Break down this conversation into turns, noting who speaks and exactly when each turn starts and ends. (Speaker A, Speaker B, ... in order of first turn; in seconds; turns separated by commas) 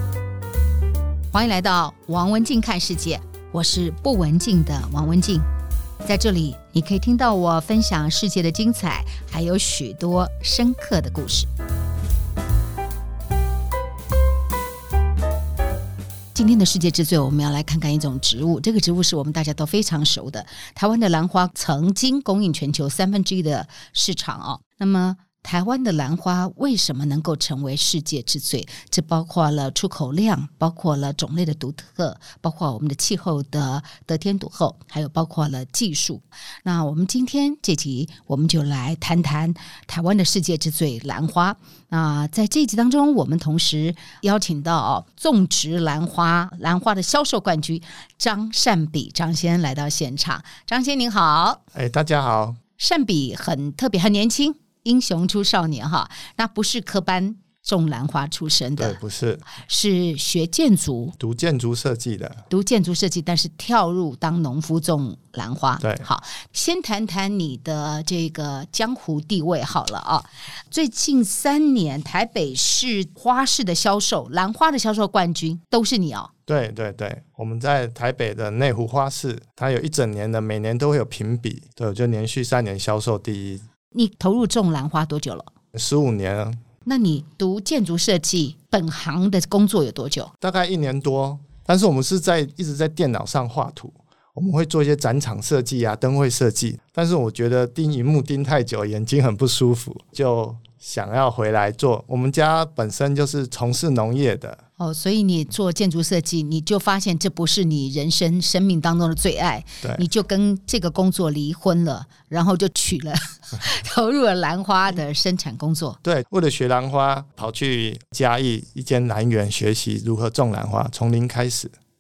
Speaker A: 1.3-5.5, Speaker A: 6.0-11.5, Speaker A: 16.3-51.6, Speaker B: 51.7-52.6, Speaker A: 52.8-59.0, Speaker B: 58.8-59.4, Speaker A: 59.5-61.2, Speaker B: 61.2-62.4, Speaker A: 62.5-76.3, Speaker B: 76.5-83.6, Speaker A: 83.9-85.5, Speaker B: 85.7-86.6, Speaker A: 86.8-90.3, Speaker B: 90.4-104.6, Speaker A: 104.8-116.0, Speaker B: 116.0-121.7